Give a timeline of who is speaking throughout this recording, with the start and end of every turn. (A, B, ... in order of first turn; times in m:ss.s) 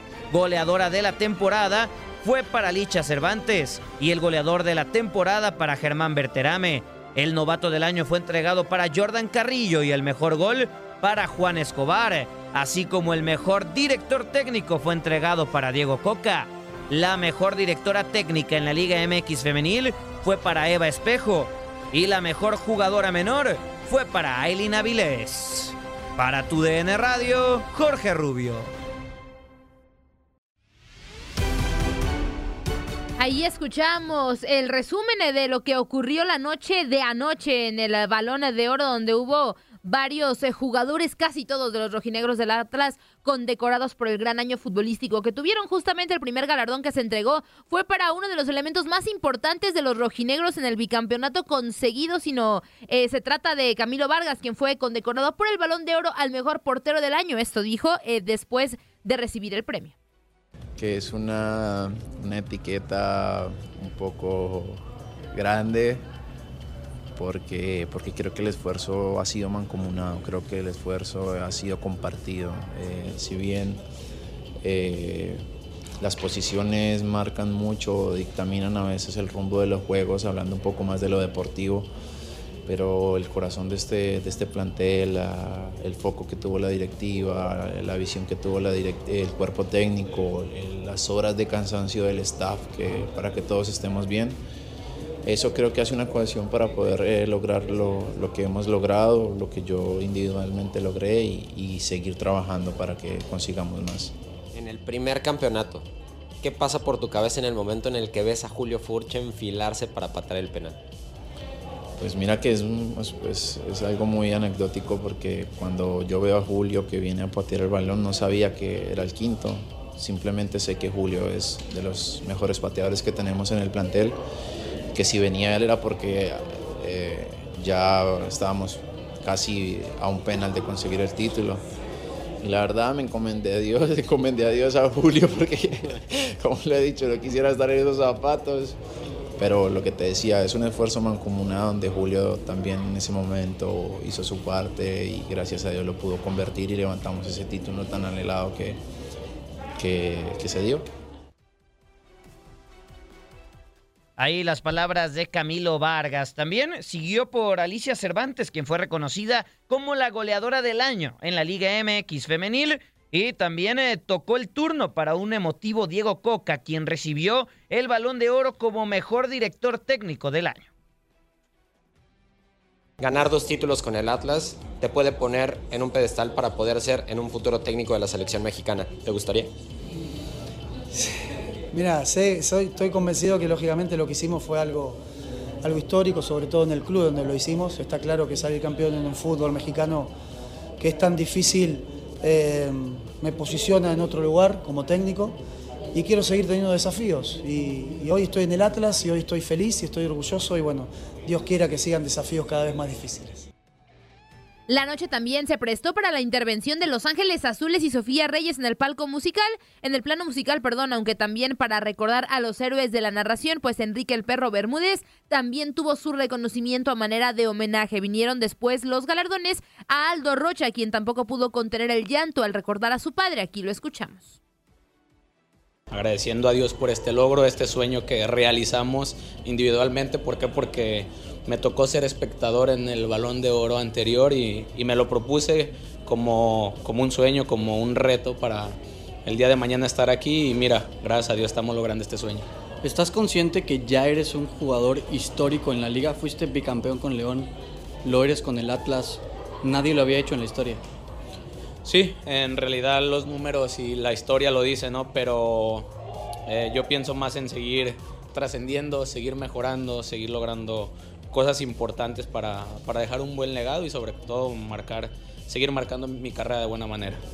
0:00.3-0:28.7 A
0:33.2-0:59.9 B
1:00.8-1:06.0 C
1:07.2-1:13.8 C
1:14.6-1:15.5 C
1:16.0-1:21.9 C
1:22.7-1:34.4 C
1:35.2-1:44.2 C
1:44.5-1:45.9 D
1:46.4-1:50.8 D
1:52.0-2:04.2 C
2:04.9-2:11.6 C
2:12.4-2:18.8 C
2:19.4-2:28.8 C
2:29.8-2:30.9 C
2:34.2-2:50.7 A
2:53.0-2:59.5 D
3:01.7-3:05.0 E
3:05.6-3:10.1 E
3:10.8-3:15.4 E
3:15.9-3:23.5 E
3:24.7-3:44.4 B
3:45.9-4:02.5 F
4:02.8-4:07.5 G
4:08.0-4:10.8 G
4:11.8-4:15.9 F
4:16.5-4:27.2 F